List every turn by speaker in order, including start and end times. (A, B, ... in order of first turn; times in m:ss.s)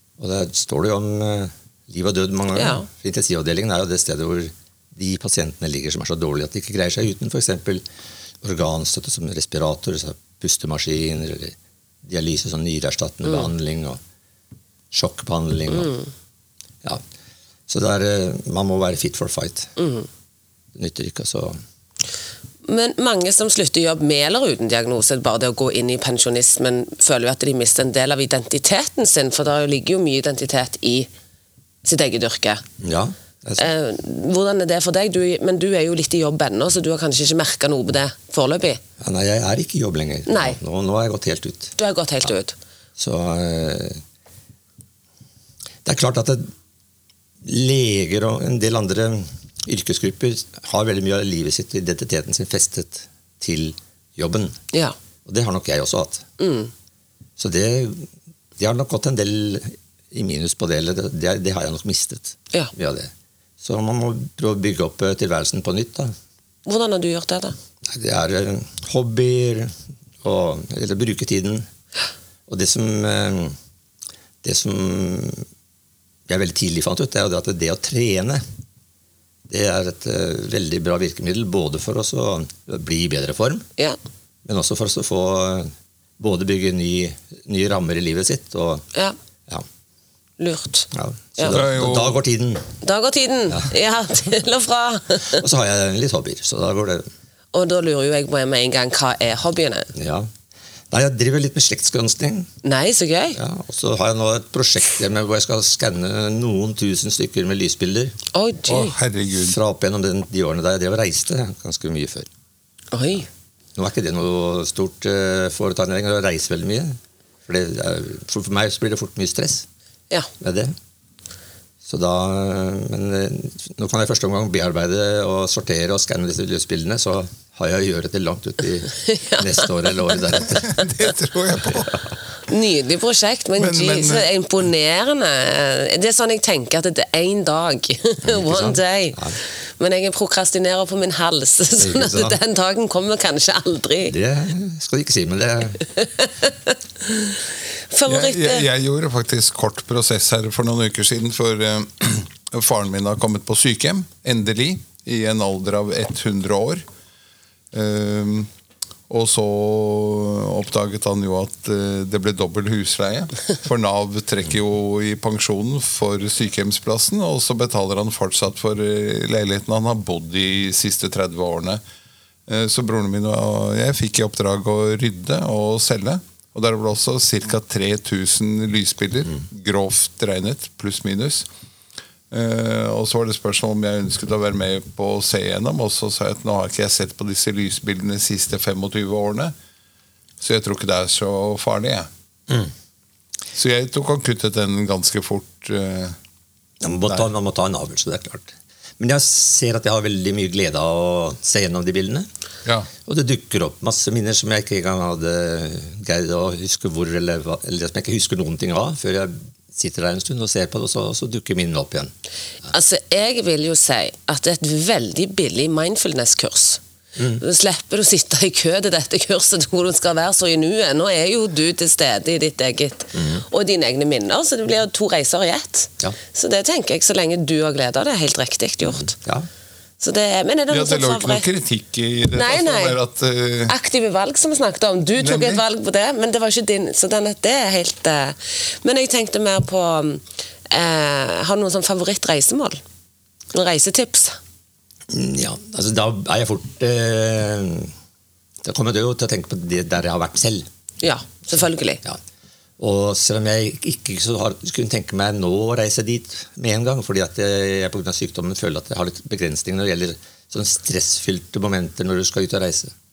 0:00.2-0:07.8 A
0:02.6-0:02.9 B
0:08.4-0:14.0 A
0:14.9-0:15.9 A
0:15.8-0:16.0 B
0:17.7-0:19.7 A
0:19.8-0:20.1 B
0:20.8-0:21.6 A
0:22.6-0:31.1 B
0:31.8-0:32.6 B
0:32.8-0:33.7 A
0:33.6-0:38.8 B
0:39.0-0:41.7 A
0:40.3-0:40.6 B
0:41.8-0:42.6 B
0:43.0-0:44.0 A
0:45.8-0:46.5 A
0:47.4-0:54.6 A
0:55.2-0:56.2 A
0:56.4-0:56.7 B
0:57.4-1:06.1 A
1:06.6-1:07.6 B
1:07.8-1:11.7 A
1:12.5-1:13.6 A
1:14.4-1:15.5 A
1:16.3-1:18.4 A
1:19.5-1:23.7 A
1:24.4-1:28.8 A
1:30.4-1:31.6 B
1:30.9-1:32.7 A
1:31.5-1:32.2 C
1:32.8-1:35.4 B
1:35.3-1:37.1 A
1:37.5-1:39.9 B
1:39.9-1:40.3 A
1:40.9-1:42.5 A
1:42.6-1:43.4 B
1:43.4-1:48.1 A
1:48.3-1:49.0 B
1:48.7-1:49.6 C
1:49.4-1:52.3 A
1:52.9-1:53.3 B
1:53.8-1:59.6 A
2:00.4-2:00.8 A
2:01.8-2:10.8 A
2:08.9-2:09.7 B
2:10.5-2:12.0 C
2:12.5-2:19.2 B
2:13.6-2:14.3 C
2:18.2-2:19.4 A
2:19.8-2:24.2 B
2:21.8-2:22.4 A
2:24.1-2:25.8 A
2:25.9-2:27.4 B
2:27.9-2:28.7 B
2:28.1-2:36.8 C
2:37.7-2:38.5 C
2:39.1-2:51.8 C
2:52.5-3:01.5 C
3:02.3-3:09.5 C
3:10.4-3:12.1 C
3:13.6-3:16.2 C
3:16.8-3:22.3 A
3:22.6-3:22.9 C
3:23.0-3:32.1 A
3:32.7-3:36.8 B
3:37.2-3:37.4 A
3:37.4-3:49.1 B
3:43.1-3:43.4 A
3:49.0-3:49.5 A
3:50.0-3:51.5 B
3:50.7-3:53.8 C
3:52.3-3:53.0 B
3:53.7-4:02.8 B
3:55.2-3:55.6 C
4:03.5-4:04.4 B
4:05.1-4:07.9 A
4:08.6-4:10.6 A
4:11.0-4:12.0 B
4:12.8-4:22.9 A